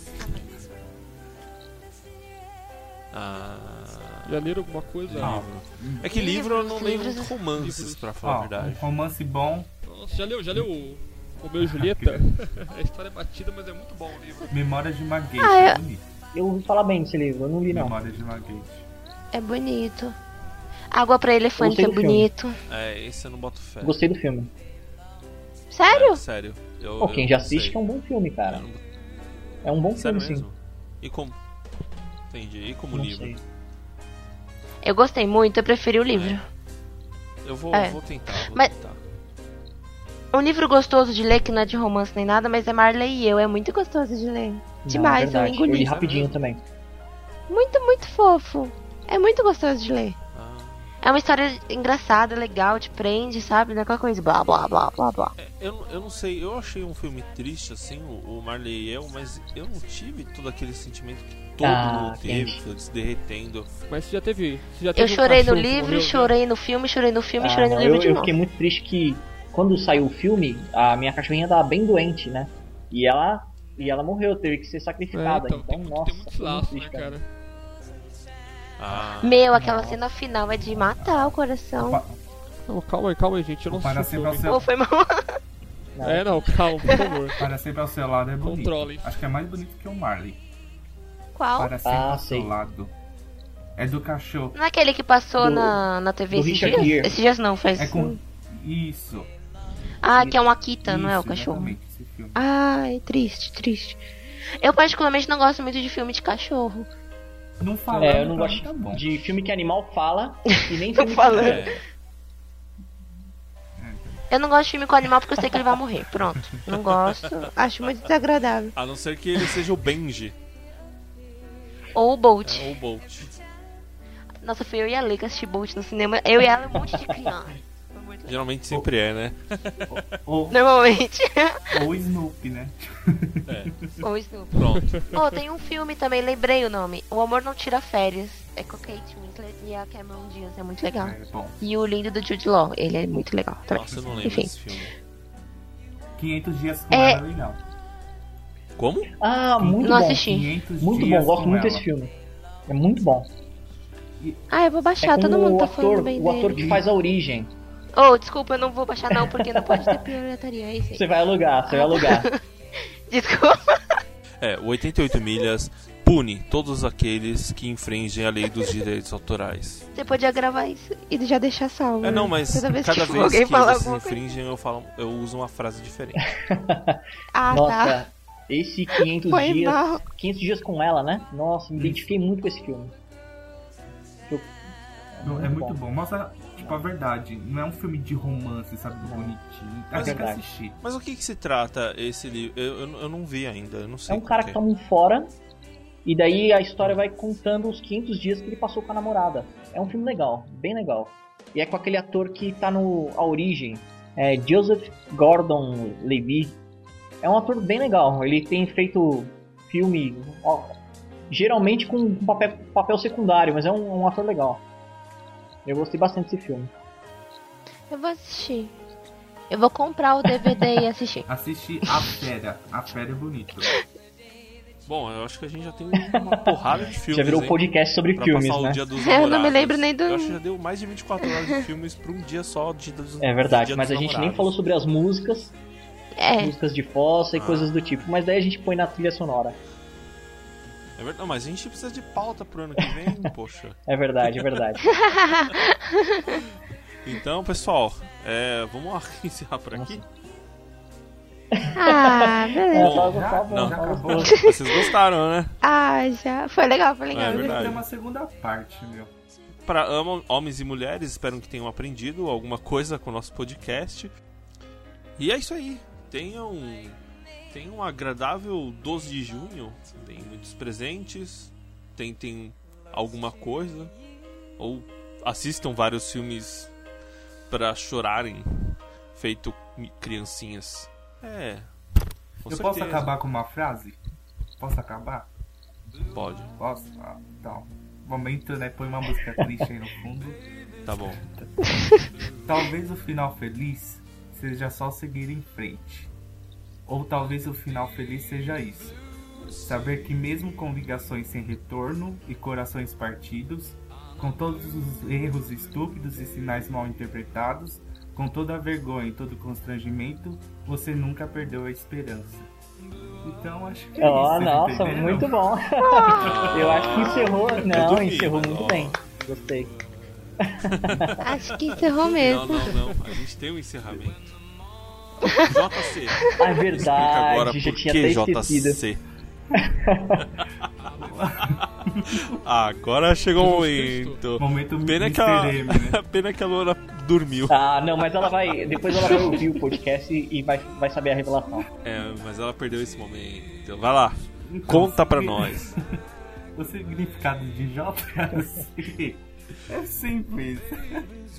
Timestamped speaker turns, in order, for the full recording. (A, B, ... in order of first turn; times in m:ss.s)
0:03.1-0:04.3 A
0:04.2-0:05.4 B
0:05.1-0:08.8 A
0:05.2-0:06.1 C
0:06.1-0:07.3 D
0:07.6-0:08.1 B
0:08.2-0:09.7 C
0:09.8-0:14.6 B
0:11.6-0:12.2 C
0:14.5-0:16.0 C
0:15.4-0:15.8 D
0:16.3-0:18.0 E
0:17.7-0:18.9 C
0:19.3-0:20.2 D
0:20.9-0:22.6 D
0:21.6-0:22.3 E
0:22.7-0:24.0 A
0:23.8-0:24.5 E
0:25.7-0:26.2 D
0:25.9-0:27.8 A
0:27.0-0:28.7 E
0:28.5-0:28.8 A
0:29.6-0:30.4 E
0:29.9-0:31.4 A
0:32.3-0:33.4 A
0:32.9-0:33.4 E
0:34.8-0:36.4 D
0:36.1-0:36.4 A
0:37.4-0:39.0 A
0:37.7-0:38.7 D
0:40.3-0:45.9 D
0:44.8-0:46.6 E
0:45.8-0:46.4 A
0:47.5-0:50.2 D
0:50.3-0:50.9 A
0:51.0-0:55.4 D
0:55.4-1:03.7 A
1:01.6-1:02.6 E
1:03.9-1:06.4 B
1:04.9-1:08.4 D
1:07.4-1:17.2 E
1:15.1-1:17.3 B
1:18.8-1:19.4 A
1:18.9-1:20.0 C
1:19.2-1:22.0 D
1:20.7-1:22.2 C
1:22.7-1:24.5 B
1:23.7-1:24.7 C
1:24.4-1:25.4 D
1:26.0-1:26.5 E
1:26.0-1:27.4 B
1:27.4-1:30.4 C
1:28.4-1:29.2 B
1:31.4-1:31.8 D
1:31.6-1:32.9 C
1:31.8-1:32.5 E
1:33.8-1:34.6 C
1:34.6-1:38.2 D
1:35.4-1:35.8 E
1:36.3-1:37.1 E
1:36.6-1:36.9 C
1:37.7-1:39.3 C
1:40.0-1:41.8 D
1:40.8-1:42.4 C
1:42.4-1:44.0 D
1:44.6-1:46.9 D
1:47.6-1:49.1 C
1:47.9-1:51.7 E
1:50.6-1:51.8 D
1:51.3-1:51.8 A
1:53.8-1:54.2 C
1:54.3-1:58.7 D
1:57.0-1:57.9 A
1:58.7-2:00.4 A
2:01.9-2:02.7 D
2:02.4-2:03.4 A
2:04.4-2:08.3 D
2:08.2-2:10.2 A
2:09.9-2:10.6 C
2:10.5-2:11.8 D
2:11.7-2:13.9 C
2:13.5-2:13.8 A
2:14.0-2:14.6 D
2:14.5-2:15.2 A
2:15.1-2:24.5 D
2:20.9-2:21.6 C
2:23.7-2:24.9 A
2:23.9-2:24.2 C
2:26.2-2:27.6 C
2:26.9-2:27.2 D
2:28.8-2:29.1 A
2:29.2-2:32.1 E
2:29.6-2:31.8 C
2:29.8-2:30.5 D
2:32.7-2:33.3 E
2:34.5-2:36.6 D
2:35.0-2:37.5 E
2:38.0-2:41.0 D
2:39.1-2:40.1 E
2:40.9-2:42.3 E
2:41.7-2:42.4 D
2:43.1-2:44.0 D
2:44.4-2:49.9 A
2:49.9-2:54.2 D
2:52.0-2:56.3 A
2:56.4-3:02.9 E
2:57.3-2:58.0 D
2:59.3-3:00.0 D
3:01.8-3:02.1 C
3:04.3-3:04.6 E
3:05.1-3:05.8 E
3:05.2-3:10.8 C
3:09.0-3:09.3 E
3:09.9-3:10.2 A
3:09.9-3:10.4 E
3:10.8-3:14.6 A
3:14.1-3:15.4 E
3:16.0-3:26.6 E
3:27.2-3:30.8 E
3:31.3-3:34.6 E
3:35.6-3:36.7 E
3:37.9-3:38.7 D
3:39.5-3:41.3 D
3:41.3-3:43.7 C
3:44.9-3:47.6 A
3:46.0-3:48.8 E
3:48.1-3:54.5 A
3:49.0-3:50.4 D
3:53.2-3:55.5 E
3:56.2-3:56.5 D
3:56.4-3:59.6 E
3:57.3-3:58.0 A
4:01.0-4:04.5 A
4:03.9-4:04.8 E
4:04.9-4:06.4 D
4:07.0-4:10.0 A
4:09.7-4:10.0 E
4:11.5-4:14.4 E
4:11.8-4:13.1 D
4:12.7-4:15.6 A
4:13.0-4:14.4 C
4:14.2-4:14.8 D
4:15.6-4:17.7 D
4:17.1-4:17.8 A
4:17.4-4:19.1 C
4:19.6-4:24.1 A
4:25.2-4:27.0 A
4:27.5-4:33.9 A
4:34.6-4:36.7 A
4:37.5-4:41.7 A
4:42.4-4:43.1 A
4:42.5-4:44.0 C
4:44.6-4:45.3 C
4:46.0-4:46.5 A
4:46.6-4:50.4 C
4:50.8-4:51.2 A
4:52.4-4:56.1 C
4:56.8-4:59.0 C
4:59.6-5:12.5 C
5:13.2-5:15.3 C
5:14.0-5:19.7 E
5:15.8-5:17.2 D
5:16.2-5:19.0 A
5:20.4-5:21.2 E
5:20.7-5:24.3 A
5:21.2-5:22.8 D
5:25.4-5:29.0 A
5:26.4-5:28.8 E
5:29.6-5:30.3 E
5:30.9-5:31.2 B
5:31.0-5:32.4 C
5:31.6-5:37.6 A
5:33.4-5:34.2 B
5:34.4-5:36.0 C
5:37.5-5:41.7 E
5:38.9-5:39.4 A
5:41.8-5:45.7 A
5:44.5-5:45.8 C
5:46.6-5:51.1 C